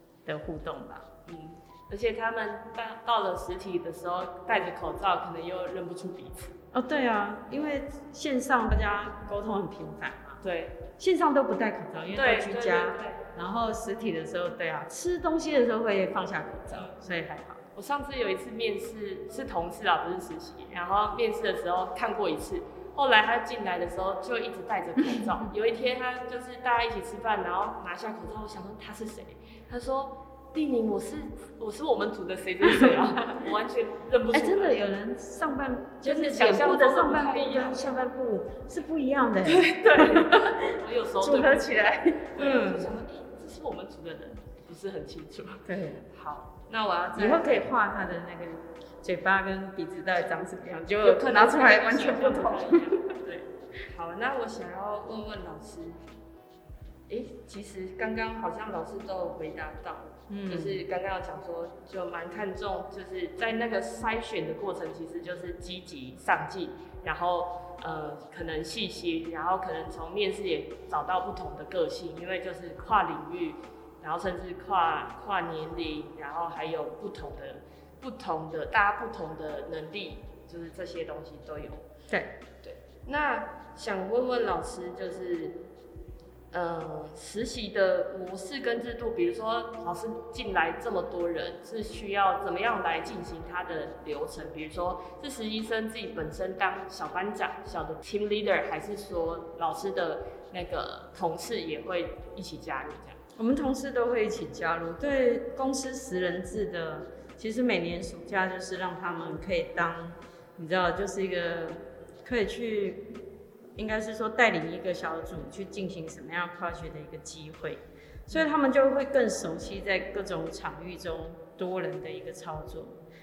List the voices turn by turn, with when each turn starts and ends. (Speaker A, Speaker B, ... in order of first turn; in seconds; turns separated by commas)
Speaker A: 0.2-1.1, Speaker B: 1.3-6.5, Speaker A: 6.7-10.4, Speaker B: 10.4-10.8, Speaker A: 11.0-17.6, Speaker B: 12.1-13.2, Speaker B: 17.7-34.8, Speaker A: 32.6-33.1, Speaker A: 34.3-42.9, Speaker B: 36.0-37.9, Speaker B: 39.4-47.7, Speaker A: 45.6-46.0, Speaker A: 47.1-53.0, Speaker B: 51.0-56.0, Speaker B: 57.1-81.8, Speaker A: 60.3-60.8, Speaker B: 82.6-85.6, Speaker B: 86.5-103.2, Speaker A: 103.4-113.1, Speaker A: 113.8-123.0